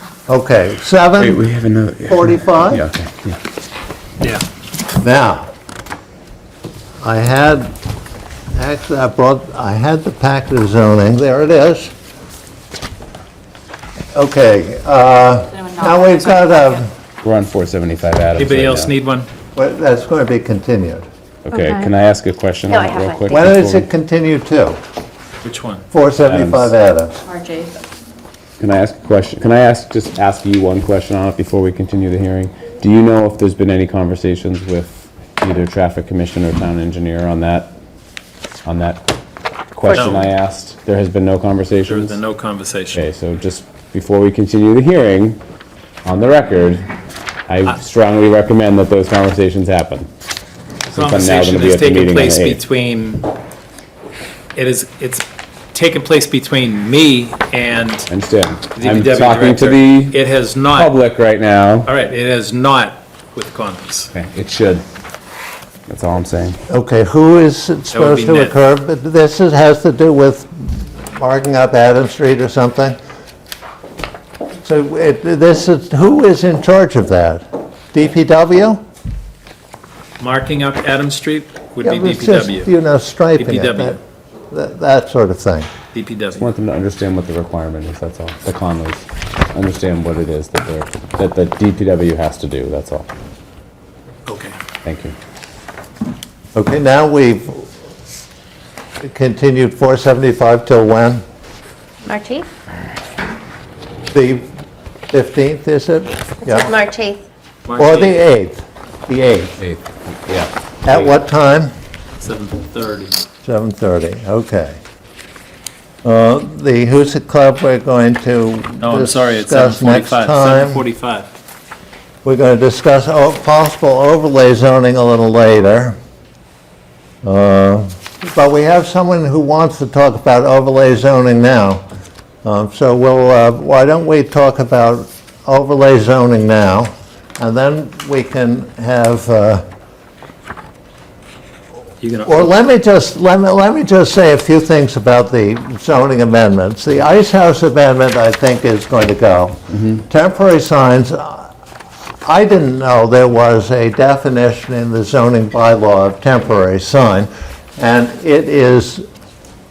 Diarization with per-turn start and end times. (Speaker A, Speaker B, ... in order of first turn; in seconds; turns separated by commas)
Speaker A: 0.3-1.4, Speaker B: 1.2-3.4, Speaker A: 2.1-2.8, Speaker A: 5.0-5.5, Speaker A: 7.0-7.7, Speaker A: 8.5-11.9, Speaker A: 14.1-16.9, Speaker B: 17.2-18.9, Speaker C: 18.4-19.3, Speaker A: 19.5-21.0, Speaker B: 21.4-23.9, Speaker D: 22.7-23.4, Speaker A: 23.3-24.8, Speaker C: 25.4-25.8, Speaker A: 25.9-27.2, Speaker B: 26.2-26.7, Speaker B: 28.6-37.7, Speaker B: 38.6-39.0, Speaker B: 39.7-42.2, Speaker C: 39.9-40.3, Speaker C: 41.9-43.0, Speaker B: 42.9-45.4, Speaker B: 46.0-46.9, Speaker B: 47.5-50.1, Speaker C: 50.9-53.3, Speaker B: 50.9-52.6, Speaker C: 54.5-58.1, Speaker B: 58.1-60.2, Speaker C: 58.8-60.9, Speaker B: 60.7-61.9, Speaker C: 61.8-64.1, Speaker B: 64.1-64.8, Speaker B: 65.9-66.6, Speaker A: 66.7-73.0, Speaker C: 67.9-68.5, Speaker A: 74.6-78.8, Speaker C: 80.2-82.7, Speaker A: 81.8-84.0, Speaker C: 83.4-84.0, Speaker A: 84.5-85.7, Speaker C: 85.9-86.5, Speaker B: 86.4-93.1, Speaker C: 94.2-94.5, Speaker B: 94.8-95.1, Speaker A: 96.5-97.6, Speaker A: 99.0-101.2, Speaker D: 102.0-102.5, Speaker A: 104.1-104.5, Speaker A: 105.1-106.7, Speaker D: 106.4-107.2, Speaker C: 107.7-108.2, Speaker A: 107.8-109.5, Speaker B: 109.6-110.5, Speaker A: 110.8-111.7, Speaker C: 112.2-113.2, Speaker A: 113.4-114.8, Speaker A: 116.0-120.8, Speaker C: 118.8-121.3, Speaker A: 122.2-126.0, Speaker A: 127.2-131.8, Speaker A: 132.4-139.6, Speaker C: 142.0-142.5, Speaker A: 142.2-151.5, Speaker A: 152.2-159.1